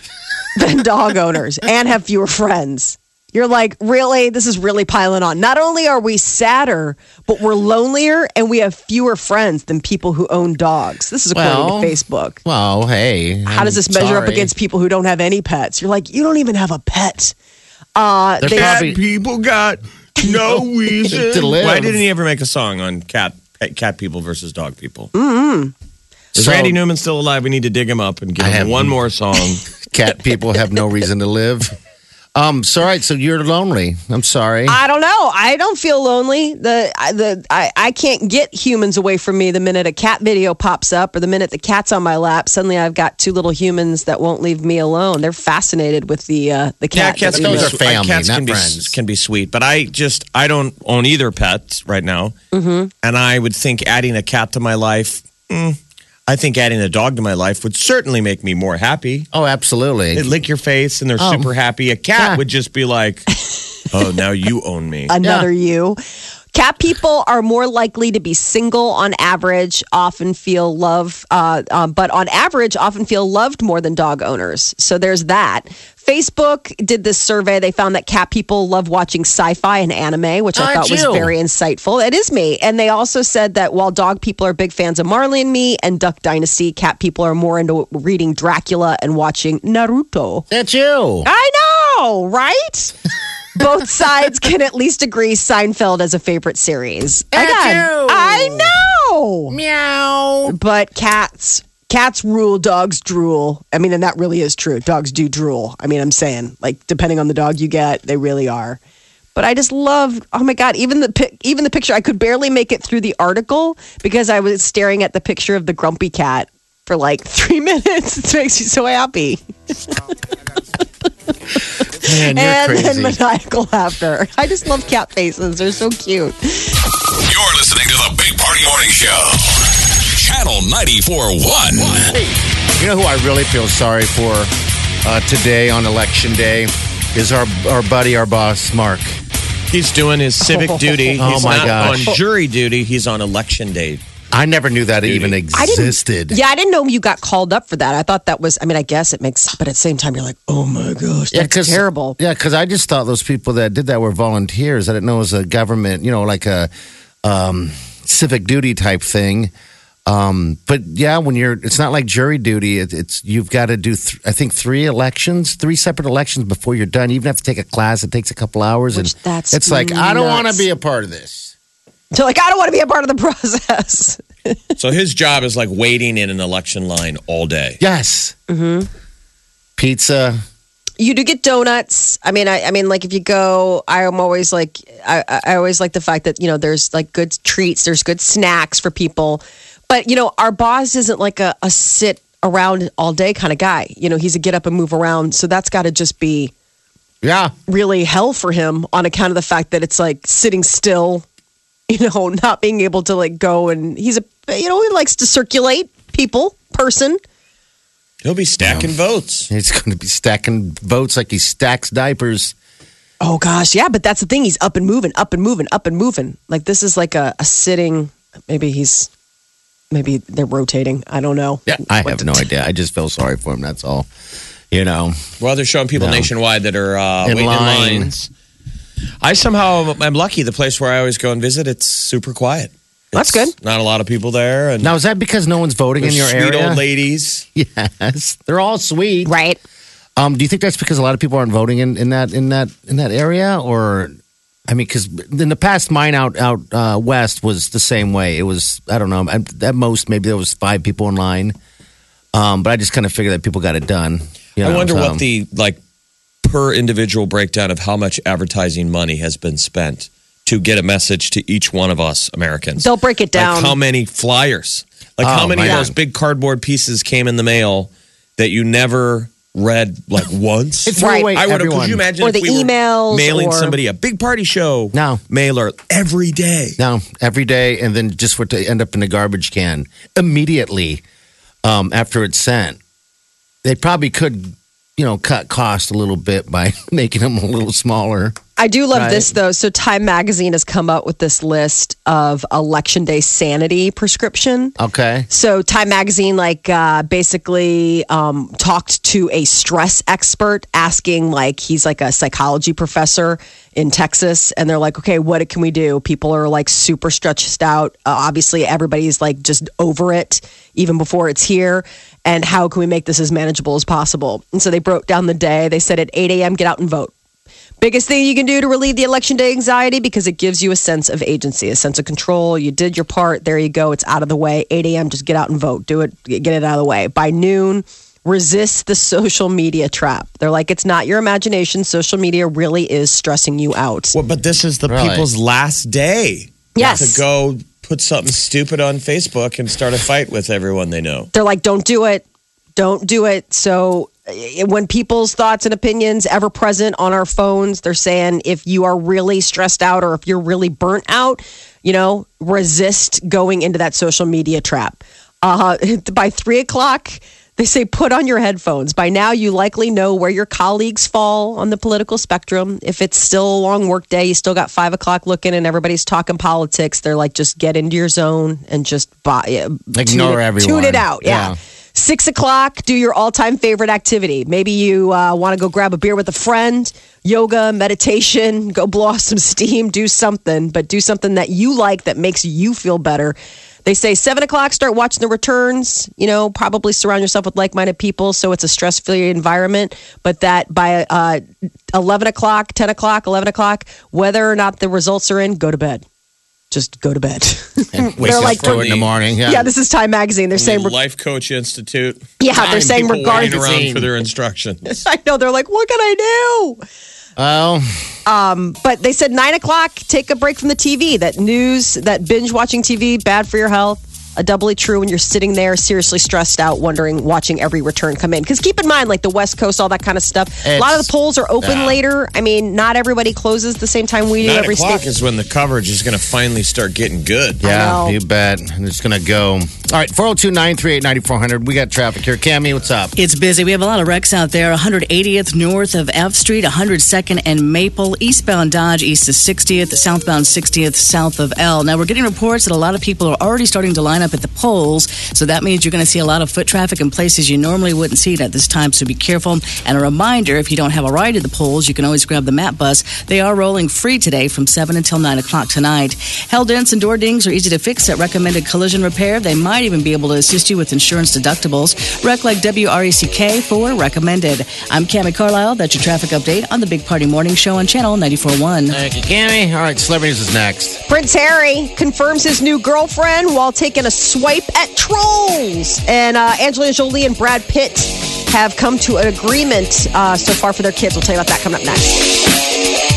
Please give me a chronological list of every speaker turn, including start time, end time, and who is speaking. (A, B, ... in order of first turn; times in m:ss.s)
0:00.5-0:12.4 A
0:11.3-0:14.5 B
0:13.5-0:17.3 A
0:18.0-0:18.8 A
0:18.4-0:19.0 B
0:18.6-0:25.1 C
0:21.1-0:22.0 B
0:25.1-0:25.7 A
0:26.3-0:29.6 C
0:26.3-0:26.8 B
0:28.4-0:29.0 B
0:29.8-0:31.8 B
0:32.4-0:34.8 B
0:34.7-0:47.7 A
0:46.9-0:52.3 C
0:47.2-0:48.9 B
0:52.5-0:52.9 A
0:53.0-0:59.3 C
0:59.3-1:00.3 B
1:00.1-1:03.3 C
1:01.2-1:01.5 B
1:02.2-1:02.4 B
1:03.9-1:05.1 C
1:05.1-1:06.0 A
1:05.2-1:05.5 B
1:06.5-1:30.4 A
1:20.5-1:21.3 B
1:30.5-1:31.3 B
1:31.2-1:32.9 A
1:33.5-1:39.5 A
1:37.3-1:38.7 B
1:39.5-1:40.6 B
1:40.4-1:48.8 A
1:49.3-1:59.9 A
2:02.0-2:06.8 A
2:02.0-2:03.2 B
2:07.2-2:12.1 D
2:11.8-2:14.5 B
2:15.0-2:19.2 B
2:19.7-2:24.0 C
2:20.4-2:22.2 A
2:21.2-2:22.2 B
2:24.3-2:26.4 B
2:25.0-2:25.4 C
2:25.5-2:32.2 A
2:31.3-2:36.7 B
2:37.2-2:39.5 B
2:40.0-2:51.5 B
2:48.9-2:50.6 A
2:52.1-2:54.7 A
2:54.8-2:57.8 C
2:57.8-2:58.3 B
2:58.5-2:58.9 A
2:59.8-3:00.4 B
3:01.0-3:16.5 A
3:17.2-3:17.5 B
3:17.7-3:21.2 A
3:21.9-3:27.2 A
3:28.2-3:29.5 C
3:28.6-3:28.9 B
3:29.5-3:32.5 B
3:33.2-3:39.1 A
3:39.9-3:42.4 A
3:41.7-3:44.1 B
3:44.7-3:45.2 B
3:45.4-3:48.3 C
3:46.0-3:46.3 B
3:47.2-3:48.1 B
3:49.2-3:54.9 C
3:53.1-3:53.5 A
3:54.8-3:56.8 B
3:56.0-3:57.4 C
3:57.6-3:59.3 B
3:59.2-3:59.6 A
4:00.2-4:04.2 B
4:04.7-4:11.6 B
4:12.3-4:15.2 B
4:14.6-4:15.8 C
4:16.4-4:36.8 C
4:22.8-4:23.8 A
4:25.2-4:25.9 B
4:30.8-4:32.0 B
4:31.0-4:31.3 A
4:32.2-4:33.8 A
4:34.9-4:35.2 B
4:36.8-4:41.0 B
4:41.6-4:42.8 B
4:43.6-4:48.4 B
4:48.6-4:54.7 A
4:48.9-4:49.3 B
4:54.8-4:55.3 B
4:55.3-5:17.1 A
5:17.8-5:34.1 A
5:34.1-5:41.3 C
5:34.9-5:35.3 B
5:36.7-5:37.2 A
5:41.3-5:42.2 A
5:42.8-6:31.4 A
6:09.9-6:11.6 B
6:31.9-6:36.0 A
6:36.7-6:38.8 A
6:38.0-6:39.7 B
6:38.2-6:39.1 C
6:39.4-6:40.9 A
6:40.5-6:44.9 C
6:42.4-6:43.6 A
6:42.6-6:44.1 B
6:44.8-6:46.8 A
6:47.4-6:48.0 B
6:48.2-7:05.0 A
7:00.6-7:01.1 B
7:01.6-7:01.9 B
7:04.4-7:07.6 C
7:07.6-7:13.1 B
7:07.6-7:08.2 A
7:13.2-7:49.0 E
7:48.9-7:51.0 B
7:51.1-8:02.3 A